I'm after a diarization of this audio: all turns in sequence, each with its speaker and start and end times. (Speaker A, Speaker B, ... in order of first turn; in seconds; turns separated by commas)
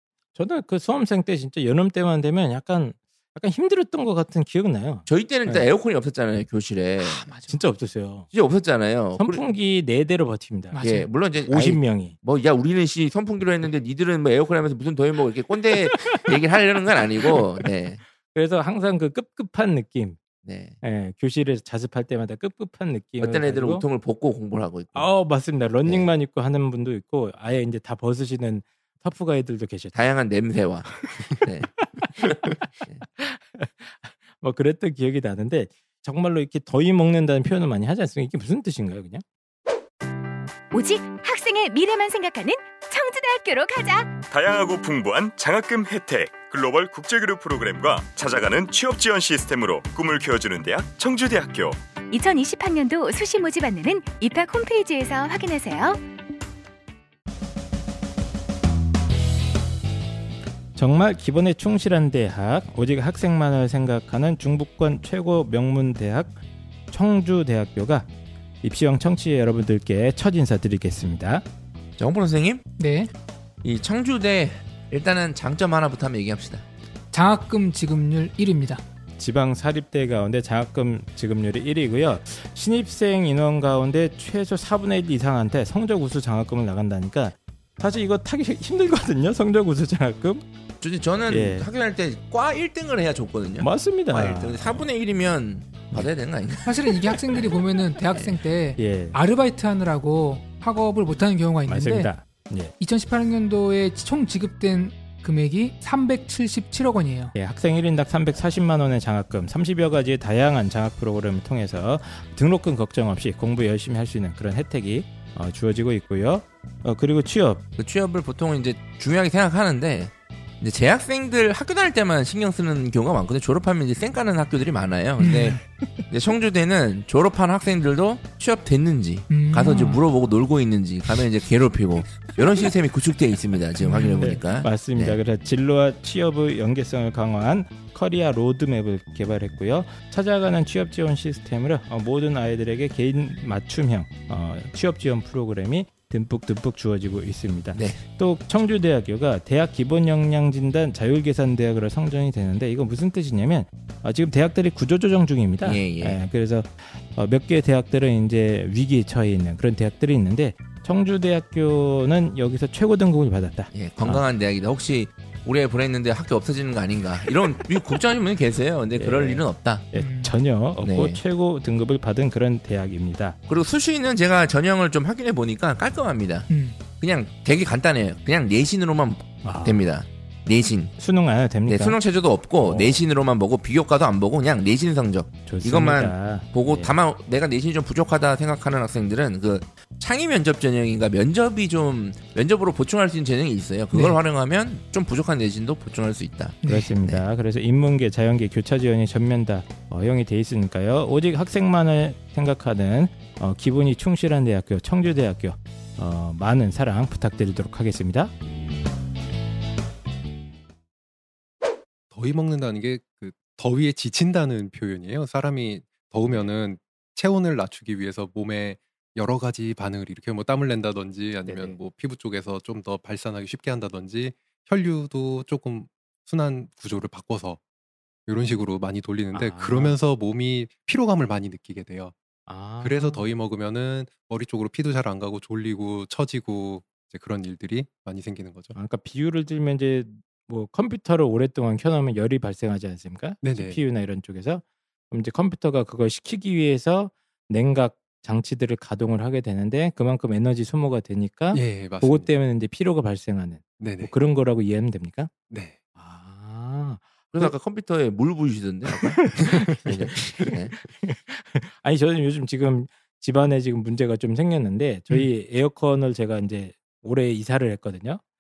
Speaker A: 0.4-5.7, Speaker B: 5.1-7.3, Speaker C: 7.0-7.6, Speaker A: 7.5-8.3, Speaker B: 8.3-9.4, Speaker A: 9.2-10.8, Speaker C: 10.7-11.1, Speaker B: 10.8-18.0, Speaker A: 11.5-12.2, Speaker A: 18.3-20.2, Speaker B: 20.4-20.8, Speaker A: 20.8-23.8, Speaker B: 23.2-25.1, Speaker A: 24.9-29.9, Speaker B: 25.8-26.1, Speaker B: 29.9-33.0, Speaker A: 31.8-32.6, Speaker A: 33.2-39.2, Speaker D: 40.7-44.3, Speaker E: 44.3-51.8, Speaker D: 52.1-56.0, Speaker A: 60.8-66.4, Speaker A: 66.9-68.1, Speaker A: 68.6-71.5, Speaker B: 72.0-72.6, Speaker C: 72.8-73.1, Speaker B: 73.6-76.6, Speaker C: 77.1-78.8, Speaker A: 79.2-90.5, Speaker B: 90.8-97.5, Speaker A: 91.3-91.7, Speaker A: 93.6-94.9, Speaker C: 96.7-102.1, Speaker A: 98.8-99.2, Speaker A: 101.7-102.7, Speaker C: 102.8-107.3, Speaker A: 107.3-117.6, Speaker B: 117.8-135.2, Speaker C: 125.2-125.6, Speaker C: 129.3-130.0, Speaker C: 133.8-134.4, Speaker A: 134.2-164.2, Speaker B: 147.7-148.0, Speaker B: 155.6-156.2, Speaker B: 163.7-169.8, Speaker A: 169.0-173.4, Speaker C: 170.0-170.3, Speaker B: 170.8-171.2, Speaker B: 173.5-180.9, Speaker C: 176.5-176.8, Speaker A: 179.4-179.8, Speaker A: 181.0-182.0, Speaker B: 181.7-197.2, Speaker A: 182.6-183.0, Speaker A: 185.5-186.9, Speaker C: 193.9-194.2, Speaker C: 196.6-196.9, Speaker A: 196.7-208.3, Speaker F: 212.1-227.6, Speaker A: 221.4-221.8, Speaker F: 228.3-232.1, Speaker A: 229.3-230.0, Speaker A: 232.5-233.3, Speaker F: 232.8-238.8, Speaker A: 238.7-255.3, Speaker F: 243.4-243.8, Speaker F: 251.5-252.3, Speaker F: 253.8-254.1, Speaker F: 255.5-255.8, Speaker A: 256.0-257.5, Speaker B: 257.3-259.3, Speaker A: 259.0-268.2, Speaker B: 259.9-260.7